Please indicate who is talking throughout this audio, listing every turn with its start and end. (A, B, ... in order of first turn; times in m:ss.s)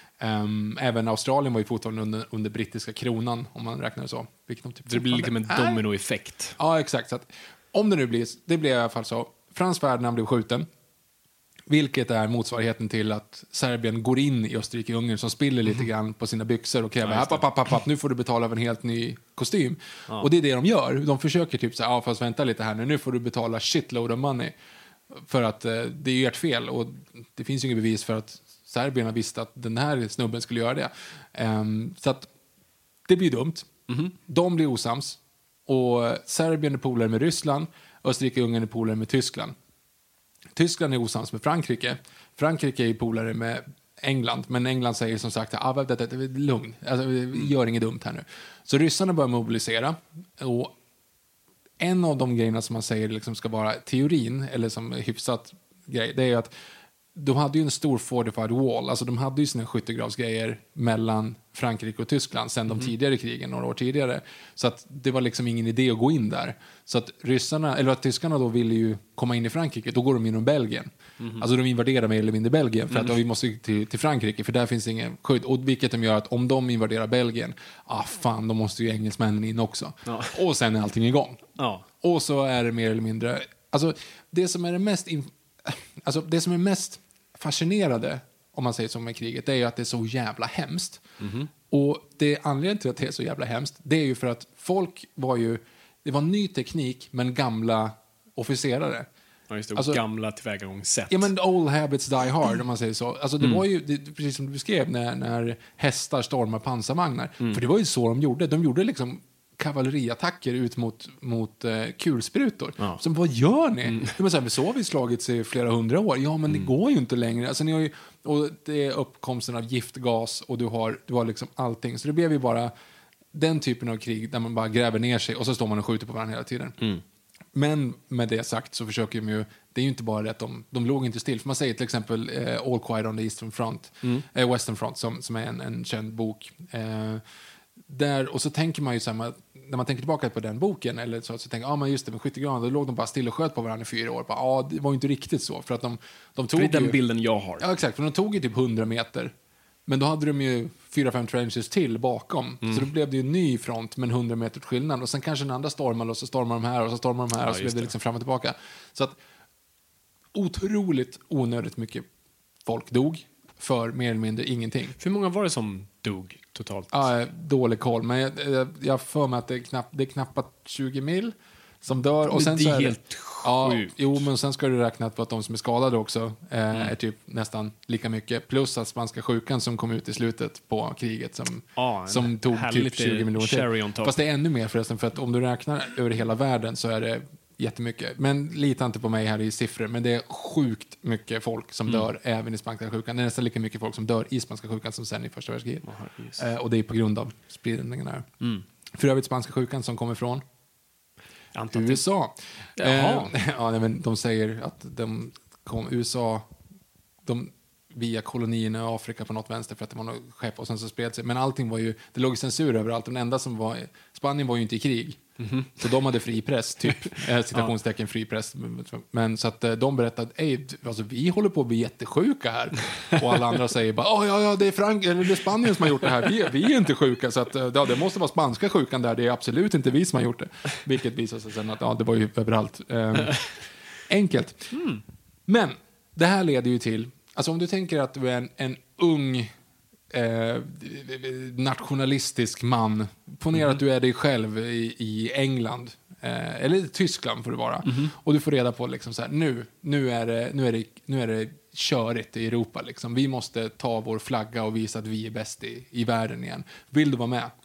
0:00.2-0:05.9 A
0:04.9-0:06.6 B
0:06.6-0:10.7 A
0:11.7-0:24.6 A
0:17.0-0:17.4 B
0:25.1-0:32.3 A
0:33.1-0:39.6 A
0:33.9-0:34.2 B
0:40.6-0:50.7 A
0:51.8-0:56.5 A
0:57.2-1:21.5 A
1:11.2-1:11.5 B
1:12.9-1:13.2 B
1:20.1-1:20.4 B
1:21.6-1:21.9 B
1:22.0-1:31.0 A
1:31.2-1:31.5 B
1:31.7-1:39.1 A
1:39.5-1:41.3 B
1:39.8-1:40.0 A
1:41.1-2:02.7 A
1:53.9-1:54.2 B
2:03.3-2:06.8 A
2:07.5-2:17.2 A
2:17.9-2:27.0 A
2:26.5-2:27.6 B
2:27.6-2:29.3 A
2:29.9-2:39.2 A
2:32.6-2:32.9 B
2:37.4-2:37.9 B
2:40.3-2:42.1 A
2:42.6-2:45.0 A
2:45.0-2:47.1 B
2:46.9-3:15.9 A
2:52.3-2:54.2 B
3:01.8-3:04.1 B
3:15.8-3:16.5 B
3:16.4-3:18.3 A
3:18.4-3:18.7 B
3:18.9-3:20.4 A
3:21.6-3:22.0 B
3:21.7-3:26.5 A
3:22.8-3:23.4 B
3:27.2-3:35.2 A
3:35.4-3:35.8 B
3:35.8-3:53.4 A
3:36.9-3:37.7 B
3:54.1-3:54.7 A
3:54.7-3:55.0 B
3:55.5-3:59.5 A
4:00.1-4:17.5 A
4:07.8-4:08.1 B